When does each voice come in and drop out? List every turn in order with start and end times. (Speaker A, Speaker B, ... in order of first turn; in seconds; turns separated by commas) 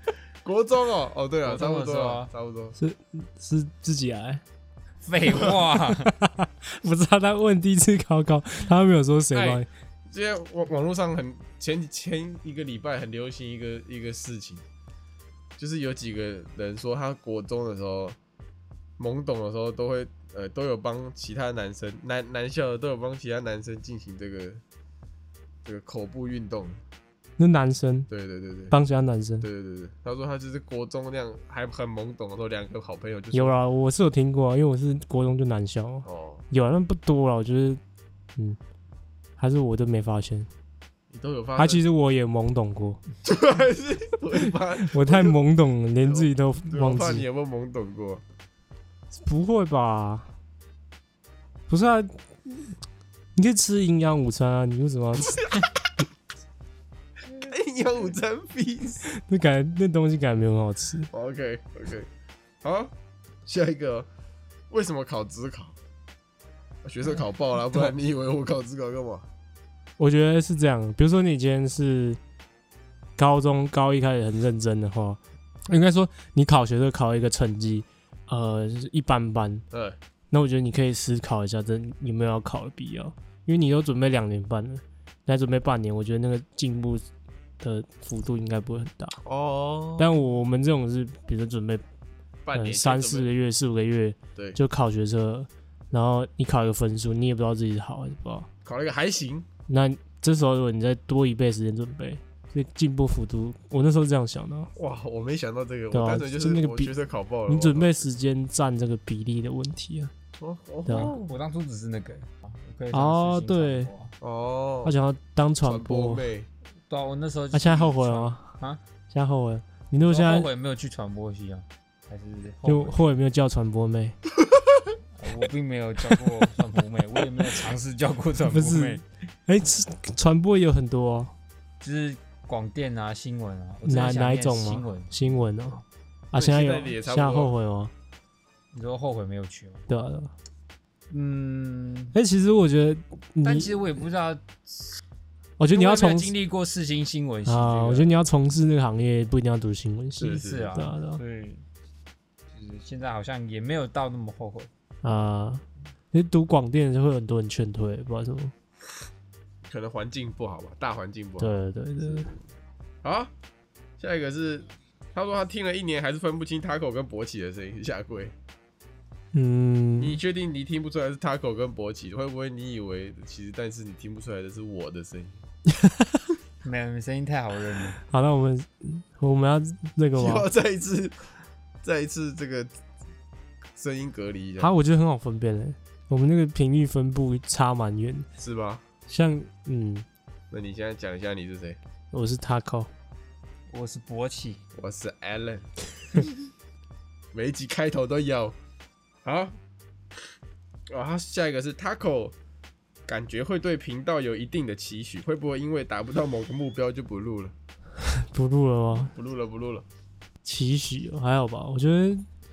Speaker A: 0.4-2.8, Speaker B: 1.4-2.3, Speaker C: 2.8-4.4, Speaker B: 5.0-6.1, Speaker C: 6.0-9.7, Speaker A: 9.3-14.6, Speaker A: 15.6-18.2, Speaker A: 19.0-24.6, Speaker A: 25.6-26.8, Speaker C: 27.4-28.1, Speaker A: 28.1-28.7, Speaker C: 28.7-29.5, Speaker A: 29.4-33.5, Speaker C: 33.3-37.8, Speaker A: 36.0-36.4, Speaker C: 39.4-40.5, Speaker A: 41.1-41.8, Speaker C: 41.6-43.0, Speaker A: 43.2-45.4, Speaker C: 44.8-47.2, Speaker A: 46.0-48.2, Speaker C: 49.2-50.3, Speaker C: 51.7-52.7, Speaker C: 53.4-55.5, Speaker A: 57.3-59.0, Speaker C: 59.0-61.1, Speaker A: 61.1-62.1, Speaker A: 62.6-62.9, Speaker A: 63.5-64.1, Speaker A: 64.7-65.7, Speaker A: 66.8-69.2, Speaker C: 70.0-72.2, Speaker C: 73.2-79.6, Speaker A: 79.7-80.0, Speaker C: 80.3-87.0, Speaker C: 87.6-89.2, Speaker A: 89.2-90.1, Speaker C: 90.0-91.8, Speaker A: 92.5-93.3, Speaker C: 92.5-98.5, Speaker A: 98.6-99.5, Speaker C: 99.7-104.7, Speaker A: 104.7-108.1, Speaker C: 105.9-106.9, Speaker C: 107.5-110.1, Speaker A: 110.4-111.3, Speaker C: 110.9-111.1, Speaker B: 110.9-114.1, Speaker C: 112.9-113.9, Speaker A: 114.2-114.9, Speaker C: 114.8-116.2, Speaker A: 115.6-116.5, Speaker B: 116.9-118.8, Speaker C: 117.5-118.5, Speaker C: 119.1-120.5, Speaker B: 120.0-123.0, Speaker C: 122.6-124.2, Speaker B: 125.2-129.0, Speaker C: 128.5-131.3, Speaker B: 131.8-135.4, Speaker C: 133.8-137.9, Speaker A: 136.3-137.5, Speaker B: 138.7-139.8, Speaker C: 139.9-140.3, Speaker B: 141.1-142.2, Speaker C: 142.1-143.8, Speaker B: 143.4-144.7, Speaker C: 145.6-146.3, Speaker B: 145.7-148.2, Speaker C: 147.4-151.2, Speaker A: 150.2-150.8, Speaker B: 150.2-151.6, Speaker B: 152.5-154.7, Speaker C: 155.0-158.5, Speaker A: 159.6-162.4, Speaker C: 161.4-162.3, Speaker A: 163.0-163.3, Speaker A: 164.0-168.3, Speaker C: 169.3-170.2, Speaker A: 170.0-175.4, Speaker C: 175.7-176.2, Speaker B: 176.6-178.0, Speaker C: 178.0-180.5, Speaker A: 180.2-181.3, Speaker A: 181.8-182.7, Speaker A: 183.8-184.7, Speaker C: 184.6-188.3, Speaker A: 188.4-188.8, Speaker C: 189.1-190.1, Speaker A: 190.5-191.8, Speaker C: 192.1-192.9, Speaker B: 193.7-194.6, Speaker A: 194.8-195.7, Speaker A: 197.3-198.6, Speaker A: 199.2-199.6, Speaker A: 200.9-202.3, Speaker A: 203.1-207.5, Speaker C: 208.0-209.1, Speaker A: 209.0-209.8, Speaker C: 210.4-212.2